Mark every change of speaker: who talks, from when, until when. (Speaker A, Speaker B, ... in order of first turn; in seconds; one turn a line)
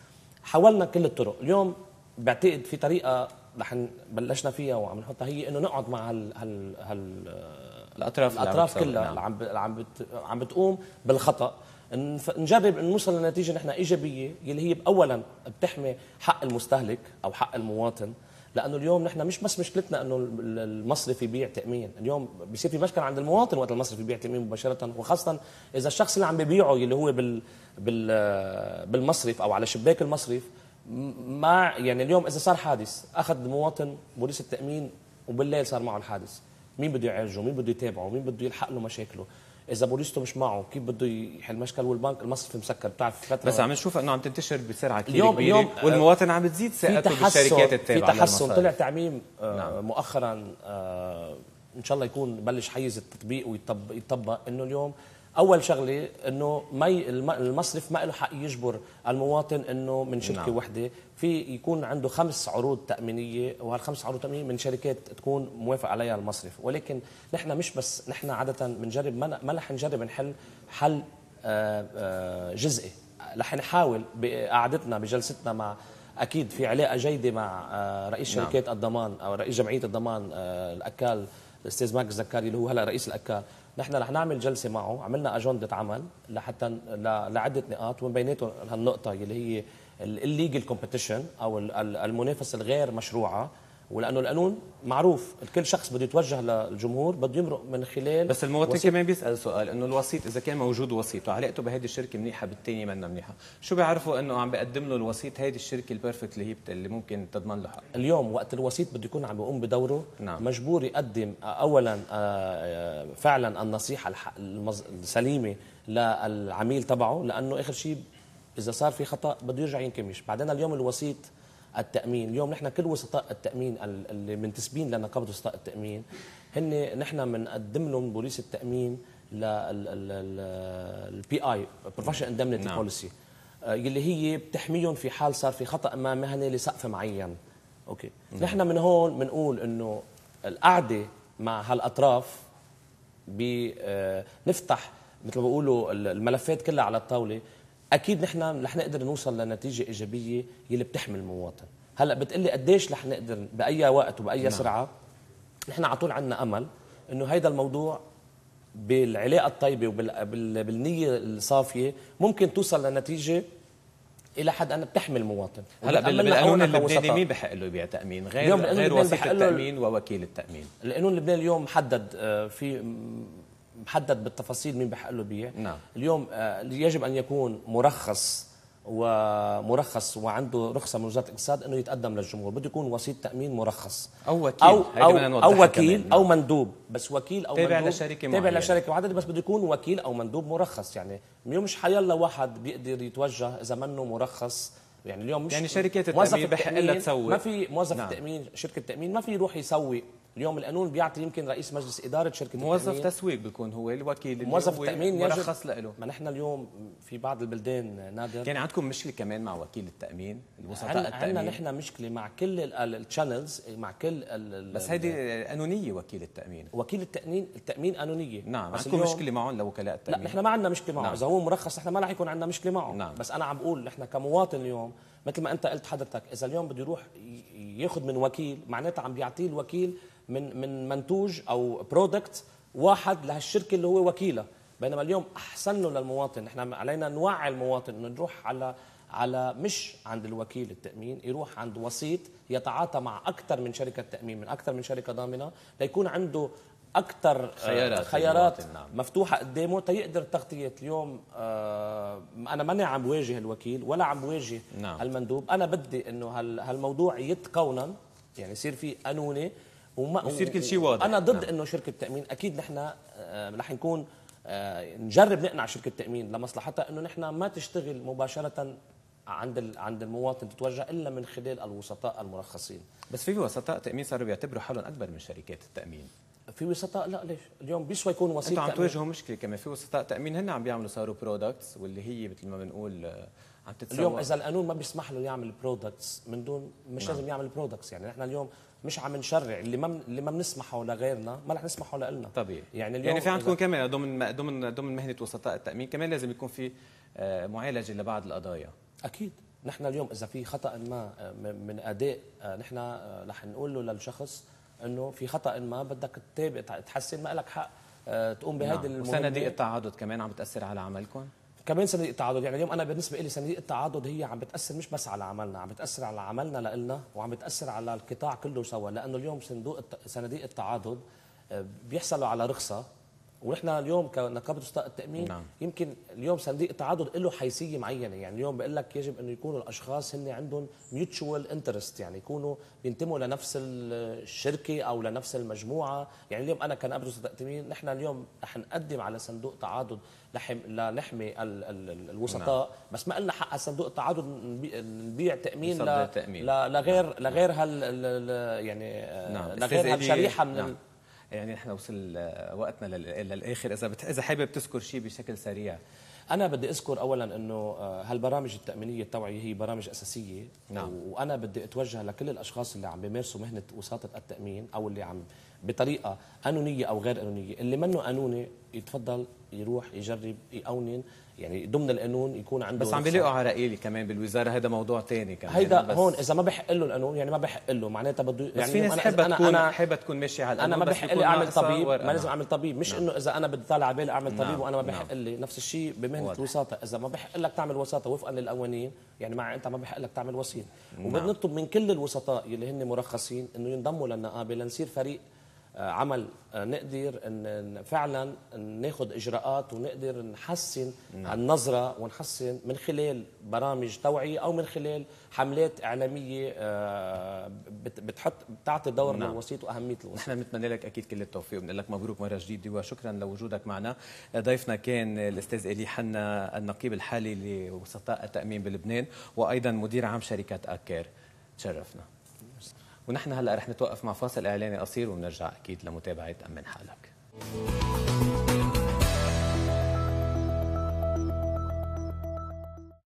Speaker A: 0.5-43.6
Speaker B: 8.0-9.2
Speaker B: 43.4-48.7
Speaker A: 45.1-46.1
Speaker A: 46.8-98.9
Speaker B: 60.2-60.6
Speaker B: 78.3-78.6
Speaker B: 98.3-107.8
Speaker A: 107.9-118.0
Speaker A: 118.6-121.2
Speaker A: 121.8-133.1
Speaker B: 132.1-132.8
Speaker A: 133.6-137.3
Speaker A: 137.9-142.4
Speaker A: 143.3-147.4
Speaker A: 147.9-154.9
Speaker B: 154.4-154.7
Speaker A: 155.7-158.0
Speaker A: 158.8-163.4
Speaker A: 164.4-167.2
Speaker B: 165.8-170.7
Speaker A: 168.4-169.6
Speaker A: 170.8-184.1
Speaker B: 175.6-175.8
Speaker B: 184.2-186.2
Speaker A: 184.6-203.1
Speaker B: 187.5-188.8
Speaker B: 195.5-197.4
Speaker B: 197.9-198.2
Speaker B: 202.6-205.9
Speaker A: 204.4-208.5
Speaker B: 208.4-211.6
Speaker A: 210.8-215.2
Speaker B: 214.7-216.7
Speaker A: 216.7-219.2
Speaker B: 218.4-220.4
Speaker A: 220.1-268.8
Speaker B: 222.9-223.2
Speaker B: 247.6-248.9
Speaker B: 254.7-255.0
Speaker B: 260.2-261.5
Speaker A: 269.3-272.8
Speaker B: 273.1-276.1
Speaker A: 276.6-278.9
Speaker B: 278.4-284.3
Speaker A: 283.9-293.6
Speaker B: 292.3-298.7
Speaker A: 299.1-309.5
Speaker B: 308.6-311.3
Speaker A: 311.6-322.8
Speaker A: 323.4-350.7
Speaker B: 325.2-325.5
Speaker B: 342.3-342.5
Speaker B: 345.6-347.4
Speaker B: 349.3-350.7
Speaker B: 351.3-355.8
Speaker A: 356.3-373.3
Speaker B: 372.8-376.2
Speaker A: 375.5-379.7
Speaker B: 378.6-382.3
Speaker A: 380.6-395.2
Speaker B: 384.3-385.1
Speaker B: 391.0-391.3
Speaker A: 395.8-410.3
Speaker B: 401.1-401.4
Speaker B: 409.0-409.4
Speaker B: 410.1-422.1
Speaker B: 423.1-427.1